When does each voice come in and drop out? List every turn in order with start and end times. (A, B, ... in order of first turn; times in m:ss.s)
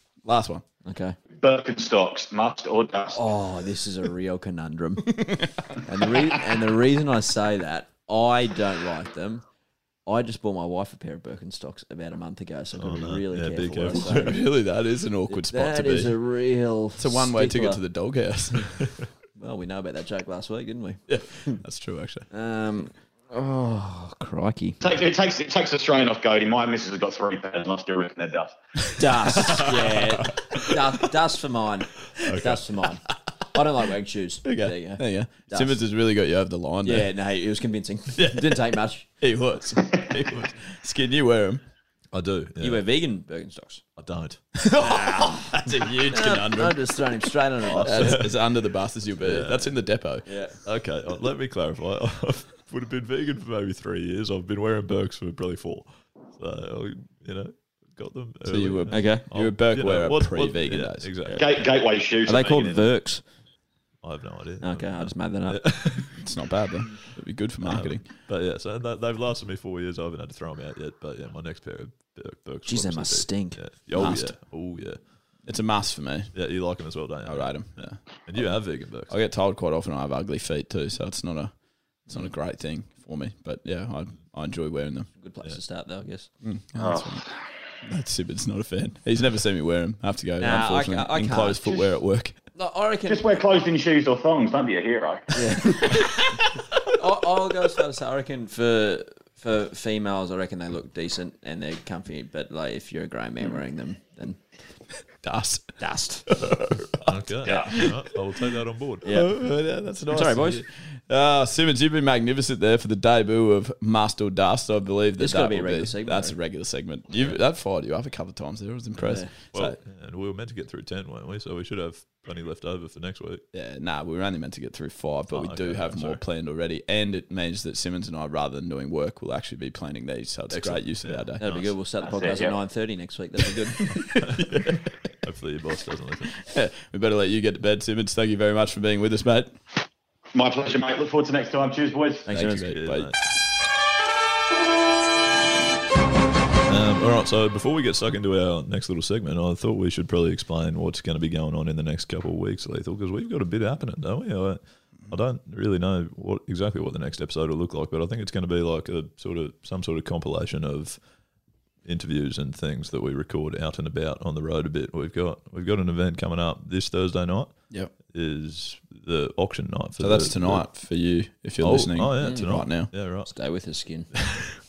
0:00.2-0:00.6 A
0:00.8-0:01.2 B
0:01.4-0:03.2 C
0:03.1-0:09.4 B
0:10.1-0:14.4 B
0:12.8-0:14.4 D
0:13.9-0:16.1 A
0:15.3-0:17.8 B
0:17.0-0:18.9 A
0:19.4-0:21.6 B
0:21.1-0:22.3 A
0:22.3-0:24.8 B
0:24.8-0:28.6 C
0:29.0-0:35.8 B
0:32.2-0:32.6 D
0:34.4-0:37.1 A
0:36.8-0:39.1 B
0:38.2-0:41.6 A
0:42.1-0:42.8 D
0:42.6-0:43.8 B
0:44.0-0:44.4 D
0:44.6-0:47.0 A
0:44.8-0:48.3 B
0:47.7-0:48.4 D
0:47.8-0:50.3 A
0:49.2-0:49.7 D
0:50.3-0:50.6 B
0:50.6-1:01.4 D
0:58.5-1:01.1 A
0:58.9-0:59.3 B
1:01.3-1:02.8 C
1:02.3-1:03.2 B
1:04.0-1:06.2 D
1:04.6-1:05.6 B
1:06.1-1:08.0 A
1:07.6-1:15.1 D
1:12.7-1:14.2 B
1:13.9-1:14.4 A
1:15.4-1:16.4 A
1:16.3-1:19.1 D
1:17.2-1:21.5 A
1:22.1-1:25.1 A
1:25.2-1:26.3 B
1:26.4-1:27.2 A
1:26.8-1:27.2 C
1:27.8-1:32.4 A
1:30.4-1:32.0 B
1:32.6-1:33.4 B
1:33.1-1:35.6 C
1:35.3-1:36.2 B
1:36.9-1:44.5 B
1:45.2-1:45.8 A
1:45.8-1:46.4 B
1:46.3-1:48.1 A
1:47.0-1:49.0 D
1:47.5-1:47.7 B
1:47.5-1:47.7 C
1:49.0-1:49.3 B
1:49.0-1:59.8 A
1:50.1-1:50.6 B
1:55.2-1:56.4 B
1:59.1-1:59.3 B
1:59.5-2:03.4 D
2:03.5-2:11.4 A
2:05.3-2:06.2 D
2:10.6-2:11.7 D
2:11.4-2:14.2 B
2:12.0-2:12.6 C
2:13.9-2:14.8 A
2:14.2-2:14.6 D
2:15.2-2:16.4 D
2:16.4-2:19.6 A
2:20.3-2:22.3 C
2:22.3-2:22.7 B
2:22.3-2:23.1 A
2:22.6-2:23.2 D
2:26.7-2:41.0 D
2:41.8-2:50.7 D
2:50.0-2:52.9 A
2:51.6-2:53.3 D
2:52.2-2:54.3 B